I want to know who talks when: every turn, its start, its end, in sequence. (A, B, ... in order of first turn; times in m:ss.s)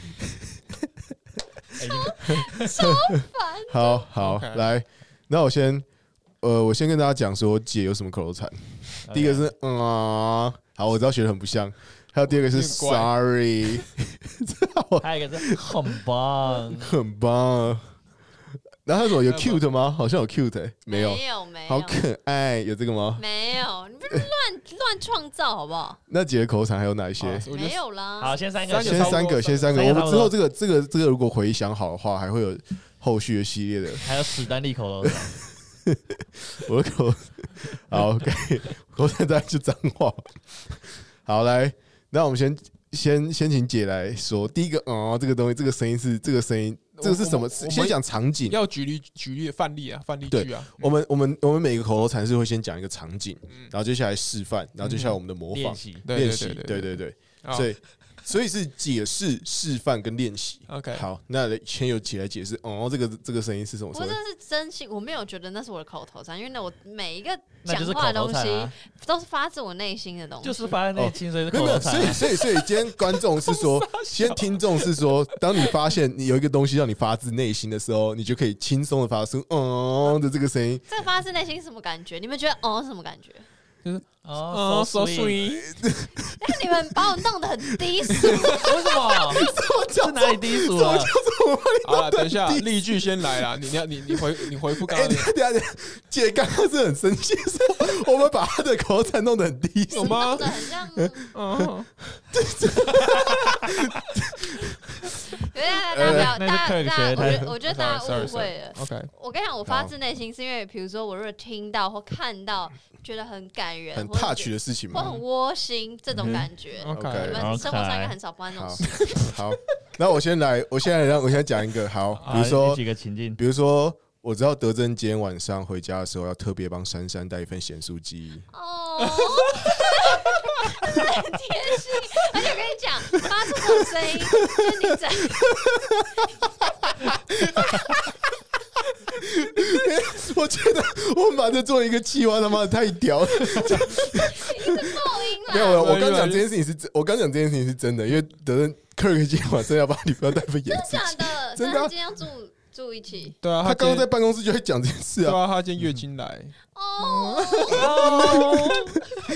0:01.8-0:02.7 A
0:01.8-0:04.1 B
0:03.7-0:05.9 C
0:04.2-0:04.7 D
0:06.4-0:15.9 C
0:09.1-0:09.5 A
0:12.3-0:13.2 D
0:15.0-0:17.0 A
0:16.8-0:17.9 C
0:18.8-0:23.2 C
0:19.2-0:19.7 D
0:20.9-0:22.0 B
0:23.2-0:26.0 B
0:26.1-0:27.5 C
0:27.2-0:27.8 D
0:27.5-0:28.4 B
0:28.2-0:30.4 A
0:28.7-0:30.0 D
0:28.8-0:34.1 C
0:34.0-0:35.4 A
0:35.9-0:48.6 C
0:47.0-0:51.0 D
0:50.3-1:04.2 C
0:54.8-0:55.3 D
0:55.5-0:56.1 A
0:56.0-0:57.7 D
1:00.7-1:01.1 D
1:03.9-1:10.8 B
1:07.6-1:08.7 A
1:10.4-1:12.2 A
1:10.9-1:20.8 C
1:12.4-1:15.8 D
1:20.9-1:23.4 B
1:23.8-1:25.8 D
1:24.2-1:25.4 A
1:25.6-1:26.4 C
1:26.4-1:29.3 B
1:28.6-1:31.1 A
1:29.3-1:33.5 C
1:31.8-1:35.3 D
1:34.1-1:41.2 C
1:39.9-1:41.2 B
1:39.9-1:40.5 D
1:41.3-1:41.9 D
1:42.2-1:46.4 C
1:45.4-1:59.0 B
1:46.0-1:47.5 A
1:47.2-1:47.4 C
1:47.4-1:49.1 D
1:49.7-1:49.9 C
1:53.9-1:55.1 C
1:56.2-1:57.6 D
1:56.9-1:57.4 C
1:57.4-1:58.2 A
1:58.5-2:02.8 C
1:58.9-1:59.4 D
2:02.2-2:02.5 D
2:02.3-2:03.4 A
2:03.4-2:08.5 C
2:08.5-2:15.5 B
2:09.2-2:09.7 D
2:13.6-2:14.2 C
2:15.6-2:16.0 C
2:17.4-2:18.1 C
2:19.1-2:31.9 C
2:23.9-2:25.8 B
2:25.6-2:26.5 D
2:30.7-2:33.4 B
2:33.4-2:34.1 D
2:33.6-2:35.4 C
2:35.2-2:38.9 D
2:36.8-2:38.4 B
2:37.7-2:38.9 A